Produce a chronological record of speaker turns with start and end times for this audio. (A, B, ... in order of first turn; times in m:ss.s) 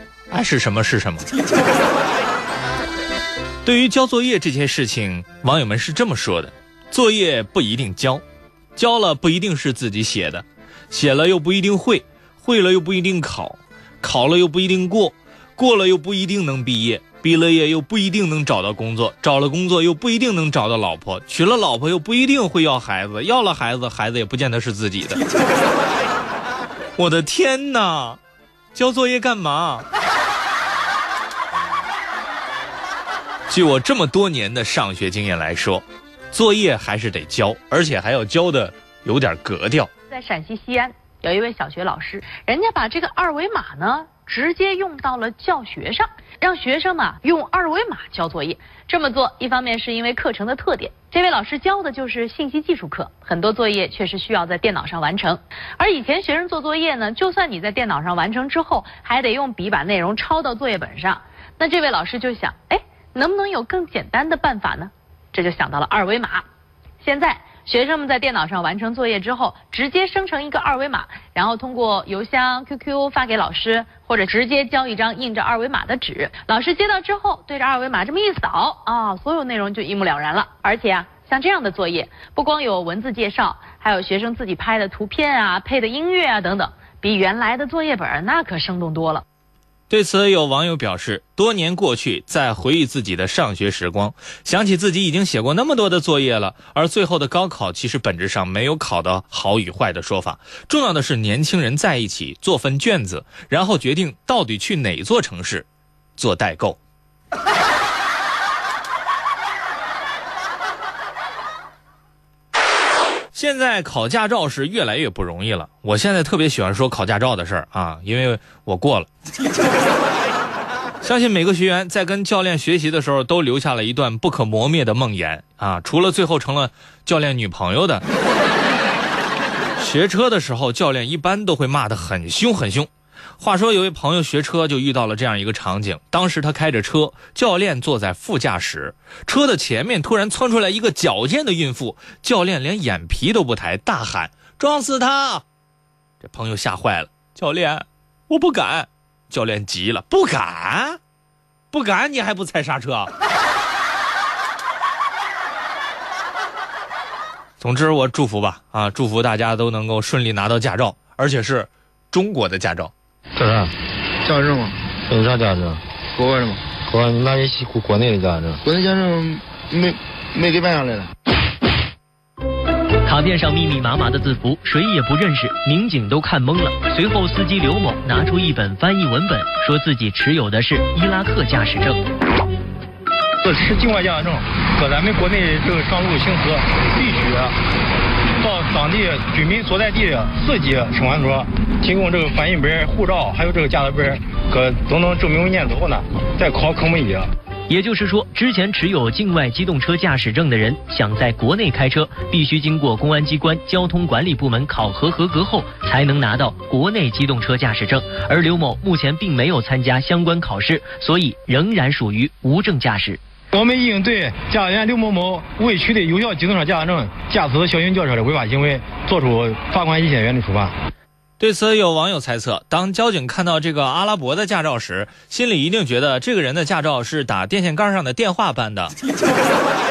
0:00.3-0:01.3 A
0:03.6-0:08.2 A
0:08.8-0:25.2 A
0:27.0-0:28.2 A
0:28.7-0:29.9 A
0:33.5-0:39.9 A
0:40.1-1:06.4 B
1:07.0-1:29.2 B
1:29.9-1:46.8 A
1:53.3-1:59.1 A
2:01.0-2:08.0 A
2:09.8-2:25.4 A
2:26.2-2:31.0 A
2:31.7-2:33.1 A
2:37.6-2:42.9 A
2:43.4-2:43.8 C
2:44.2-2:44.8 D
2:45.1-2:45.8 C
2:46.1-2:46.7 D
2:46.7-2:48.6 C
2:48.6-2:51.1 D
2:53.1-3:02.0 E
3:03.4-3:07.6 F
3:08.4-3:17.3 F
3:17.7-3:33.2 E
3:33.5-3:40.7 F
3:41.4-3:49.0 A